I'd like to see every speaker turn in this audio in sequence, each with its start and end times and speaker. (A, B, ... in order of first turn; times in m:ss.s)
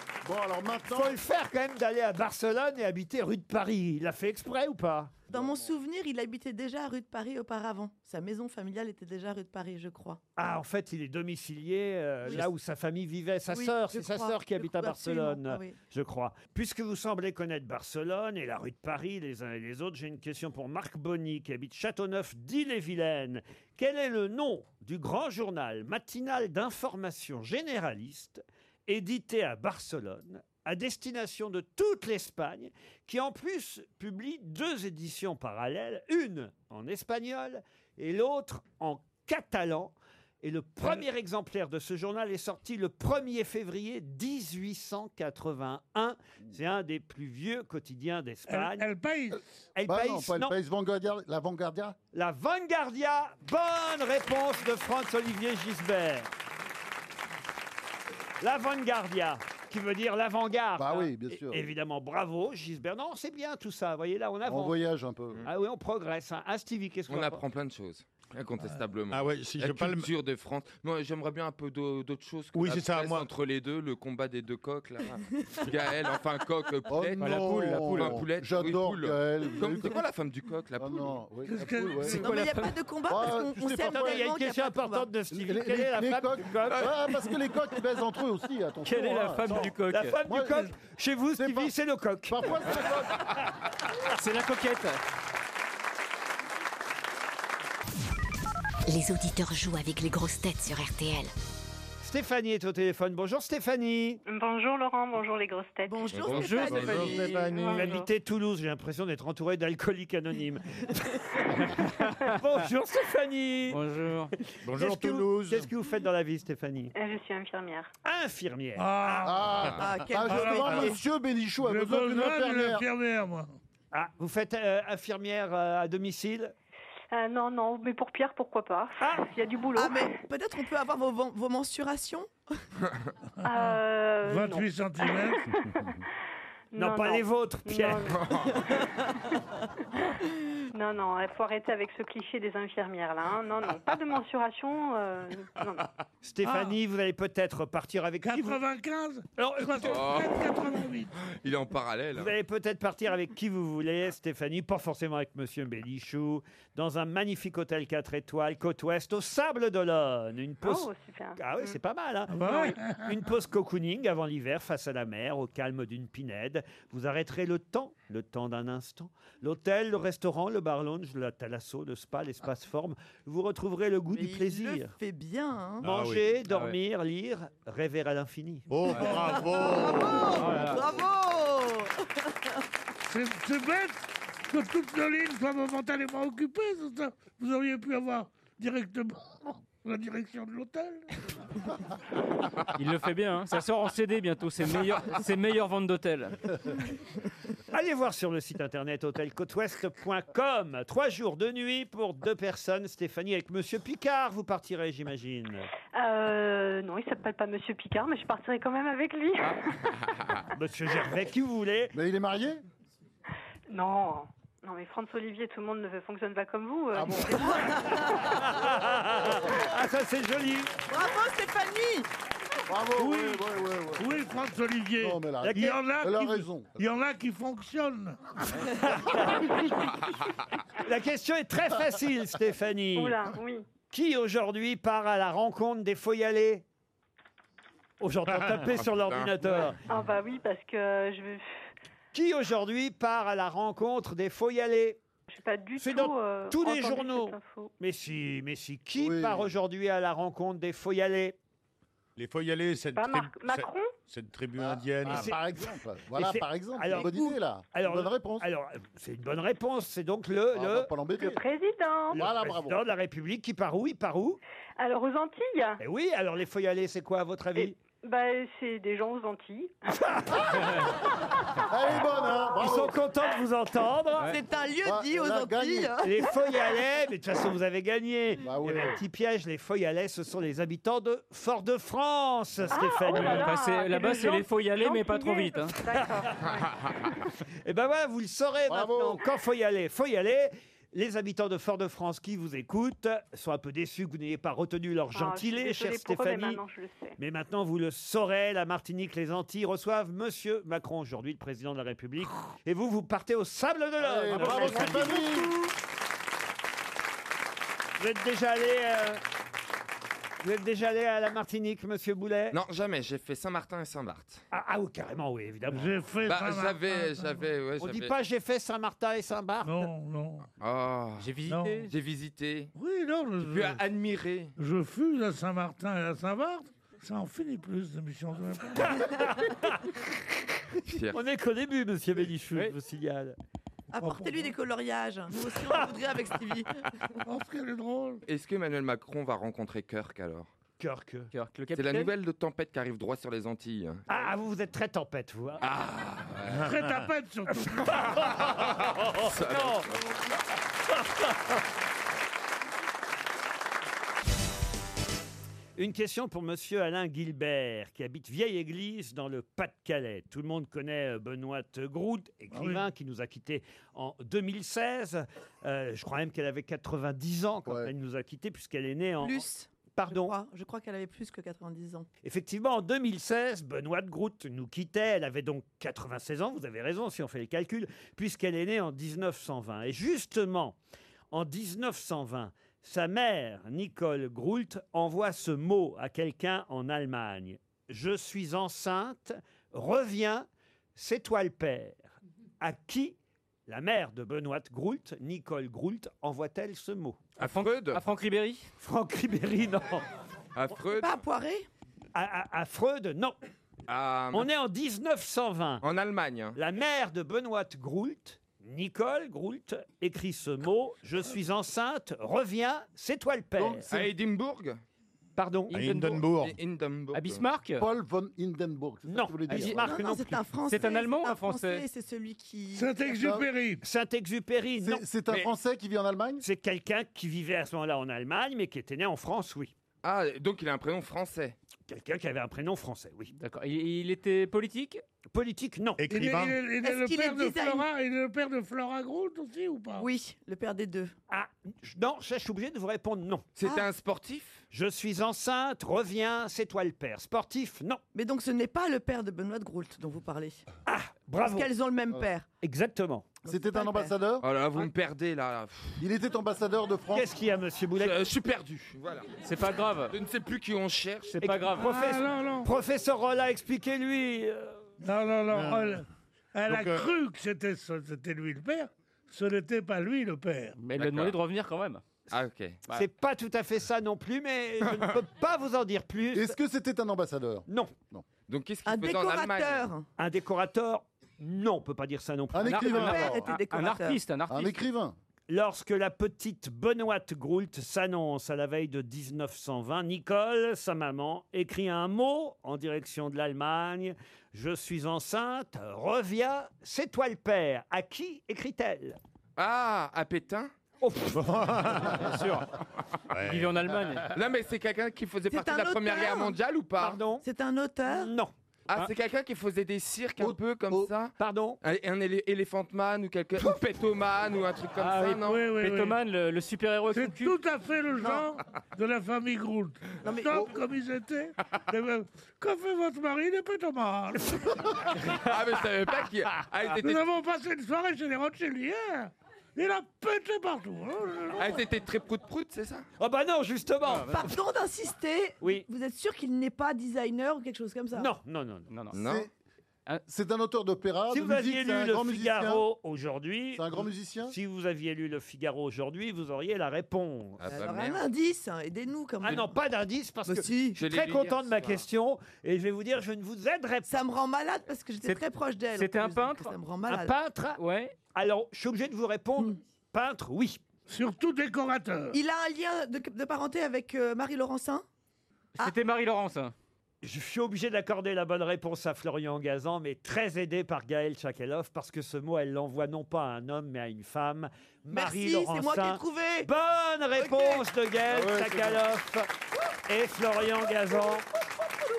0:00.2-0:01.2 A
0:00.9-0:05.1 B
0:05.3-0:10.2 C
0:05.3-0:05.7 A
0:10.4-0:48.9 B
0:13.5-0:15.7 C
0:48.5-0:49.4 D
0:49.8-0:50.5 B
0:49.8-0:52.0 A
0:52.1-0:56.3 B
0:58.4-1:04.8 B
1:00.8-1:01.6 A
1:04.4-1:05.4 A
1:05.4-1:07.4 B
1:07.1-1:21.2 E
1:09.1-1:10.1 F
1:12.5-1:13.3 F
1:16.9-1:20.0 A
1:17.2-1:18.2 G
1:20.8-1:22.3 A
1:21.4-1:22.2 D
1:22.0-1:22.8 G
1:22.1-1:25.1 C
1:23.1-1:24.3 A
1:23.8-1:27.0 B
1:25.3-1:29.7 A
1:28.8-1:30.2 G
1:29.4-1:32.9 B
1:30.2-1:30.7 A
1:31.4-1:31.7 A
1:32.3-1:33.3 A
1:34.1-1:35.0 G
1:38.9-1:41.3 H
1:42.0-1:44.2 B
1:44.2-1:46.1 I
1:45.8-1:47.5 C
1:46.1-1:47.1 E
1:46.3-1:47.9 G
1:46.9-1:47.5 F
1:47.5-1:48.0 I
1:47.5-1:53.8 B
1:51.8-1:52.3 G
1:53.7-1:54.3 G
1:54.6-1:55.7 F
1:54.7-1:56.9 B
1:56.9-1:57.9 I
1:58.0-1:59.4 B
1:58.8-1:59.7 D
1:59.2-2:02.8 A
1:59.7-2:01.0 C
2:00.2-2:01.0 D
2:01.6-2:03.6 D
2:03.9-2:06.5 B
2:07.1-2:10.1 I
2:09.0-2:09.2 B
2:09.7-2:12.3 C
2:13.4-2:15.5 D
2:13.4-2:16.0 I
2:16.7-2:19.3 I
2:16.8-2:18.2 B
2:18.2-2:18.6 E
2:20.7-2:25.9 I
2:26.2-2:28.6 B
2:26.4-2:26.8 D
2:28.2-2:31.1 D
2:29.4-2:30.0 B
2:29.8-2:30.5 E
2:31.2-2:32.3 E
2:32.2-2:54.9 B
2:40.6-2:41.8 I
2:42.3-2:43.2 D
2:54.1-2:55.8 C
2:55.8-2:56.3 F
2:55.8-2:58.7 B
2:56.4-2:56.8 G
2:58.7-3:00.5 F
2:58.9-2:59.3 G
2:59.0-3:02.5 C
3:00.3-3:01.0 G
3:03.0-3:11.1 D
3:12.7-3:16.6 G
3:17.7-3:25.7 B
3:25.9-3:29.7 I
3:30.5-3:31.9 B
3:31.9-3:32.6 A
3:33.7-3:38.0 I
3:36.9-3:37.5 A
3:37.4-3:38.2 C
3:38.1-3:40.7 B
3:40.9-3:42.1 C
3:42.7-3:44.3 A
3:43.0-3:43.4 D
3:44.0-3:48.7 D
3:45.0-3:46.8 A
3:45.4-3:45.8 B
3:48.7-3:49.6 B
3:50.8-3:53.2 B
3:52.9-3:53.6 I
3:53.9-3:56.6 B
3:58.0-3:59.8 B
3:58.7-3:59.4 E
3:59.8-4:01.4 I
4:02.1-4:05.0 B
4:05.3-4:07.7 I
4:05.8-4:11.4 B
4:09.0-4:09.5 A
4:12.2-4:15.4 F
4:12.9-4:13.9 I
4:14.6-4:18.5 A
4:15.0-4:15.4 B
4:16.1-4:20.9 B
4:16.9-4:17.3 C
4:20.5-4:21.4 A
4:21.2-4:22.2 I
4:22.1-4:22.8 A
4:22.1-4:24.4 B
4:24.8-4:25.8 I
4:25.8-4:27.8 B
4:27.6-4:29.7 I
4:30.0-4:30.6 B
4:31.7-4:33.0 A
4:32.6-4:34.3 B
4:34.3-4:36.2 C
4:34.8-4:36.0 A
4:36.0-4:43.5 B
4:38.4-4:39.0 A
4:42.7-4:46.7 I
4:43.1-4:45.8 G
4:45.9-4:46.4 B
4:46.5-4:46.9 E
4:47.6-4:56.6 B
4:48.7-4:49.2 A
4:55.1-4:57.2 I
4:57.2-5:05.4 B
5:04.0-5:05.5 A
5:04.4-5:04.9 G
5:08.0-5:09.2 B
5:10.4-5:12.6 B
5:12.5-5:14.4 E
5:14.5-5:15.9 B
5:15.7-5:17.5 D
5:16.2-5:18.1 E
5:17.8-5:19.9 B
5:19.6-5:20.5 D
5:20.6-5:22.7 E
5:21.2-5:21.9 G
5:21.5-5:21.8 D
5:22.7-5:23.8 D
5:23.4-5:24.5 E
5:24.6-5:29.5 D
5:29.0-5:29.7 B
5:30.8-5:31.2 E
5:31.1-5:33.4 B
5:33.9-5:36.8 C
5:34.0-5:34.5 D
5:37.2-5:38.2 D
5:38.2-5:40.5 E
5:40.8-5:41.3 B
5:41.3-5:42.1 G
5:41.7-5:44.3 E
5:44.1-5:45.6 B
5:45.6-5:46.7 E
5:46.6-5:48.0 D
5:47.8-5:50.1 E
5:48.3-5:49.9 B
5:55.8-6:10.3 B
6:02.5-6:02.8 D
6:07.6-6:07.9 A
6:09.2-6:12.1 C
6:12.2-6:20.8 B
6:21.3-6:32.0 B
6:32.6-6:33.2 B
6:33.7-6:37.2 B
6:37.4-6:38.7 G
6:37.4-6:38.0 E
6:38.8-6:40.0 B
6:40.5-6:41.2 E
6:41.0-6:41.7 C
6:42.1-6:43.4 B
6:43.9-6:44.5 E
6:44.3-6:45.8 B
6:45.8-6:46.6 E
6:46.6-6:53.9 B
6:53.6-6:53.9 A
6:53.9-6:54.8 E
6:55.4-6:55.7 B
6:55.7-6:56.2 G
6:55.7-6:56.6 F
6:56.3-6:57.4 E
6:57.1-6:57.9 G
6:57.8-6:59.8 A
6:59.1-7:00.4 B
6:59.5-6:59.8 G
6:59.8-7:03.0 C
7:00.7-7:01.8 G
7:02.7-7:03.8 D
7:03.1-7:03.5 A
7:03.8-7:05.0 B
7:04.8-7:06.4 A
7:06.4-7:09.7 B
7:10.0-7:11.6 E
7:11.9-7:13.3 B
7:13.4-7:15.0 G
7:15.3-7:16.0 B
7:16.0-7:16.6 F
7:16.1-7:20.1 D
7:16.8-7:17.8 C
7:20.0-7:21.1 C
7:21.3-7:23.4 B
7:23.5-7:24.6 E
7:24.7-7:28.0 B
7:28.1-7:30.6 C
7:30.9-7:31.7 B
7:31.4-7:32.4 C
7:32.6-7:33.3 B
7:33.4-7:34.1 C
7:33.5-7:34.5 A
7:34.4-7:36.0 E
7:36.0-7:37.3 A
7:37.1-7:38.2 B
7:37.9-7:39.3 E
7:39.4-7:40.2 G
7:40.1-7:41.4 E
7:41.3-7:42.0 G
7:41.4-7:44.8 B
7:41.8-7:42.7 D
7:45.0-7:50.8 D
7:45.5-7:46.0 F
7:46.7-7:47.1 F
7:50.8-7:52.0 G
7:51.0-7:51.4 E
7:52.3-7:52.8 E
7:52.9-7:56.5 B
7:56.3-7:58.2 A
7:57.7-7:57.9 B
7:58.5-7:59.9 E
7:58.8-8:00.0 C
8:00.2-8:03.1 B
8:02.5-8:03.5 A
8:02.6-8:04.8 G
8:02.8-8:04.2 C
8:04.5-8:05.2 A
8:05.5-8:19.2 B
8:19.6-8:20.7 E
8:21.0-8:21.4 B
8:21.3-8:22.3 F
8:22.1-8:22.7 G
8:23.3-8:24.0 F
8:23.4-8:24.3 G
8:24.3-8:27.2 E
8:25.5-8:26.5 C
8:27.0-8:27.4 B
8:27.4-8:28.3 C
8:28.1-8:28.5 B
8:28.9-8:35.7 E
8:30.4-8:31.1 A
8:31.4-8:31.8 B
8:35.0-8:37.5 G
8:35.4-8:36.2 D
8:37.1-8:45.0 D
8:40.2-8:40.7 C
8:45.2-8:47.2 E
8:47.0-8:51.8 D
8:51.6-8:53.0 E
8:53.2-8:54.5 B
8:54.1-8:54.4 G
8:54.3-8:58.3 C
8:55.6-8:55.8 B
8:58.1-8:58.9 B
8:58.9-8:59.2 G
8:59.1-8:59.5 E
8:59.1-8:59.5 A
9:00.3-9:02.8 A
9:01.3-9:07.6 B
9:03.7-9:04.6 A
9:07.6-9:08.2 E
9:07.7-9:09.7 C
9:09.4-9:14.1 B
9:10.5-9:11.0 C
9:11.0-9:12.0 E
9:14.0-9:17.3 C
9:15.2-9:16.7 G
9:17.1-9:17.8 B
9:17.8-9:18.1 G
9:18.3-9:20.8 B
9:21.1-9:22.4 D
9:22.3-9:25.0 C
9:25.8-9:26.7 G
9:27.2-9:39.5 B
9:35.1-9:36.7 C
9:37.4-9:37.8 C
9:38.3-9:39.0 A
9:40.1-9:41.4 B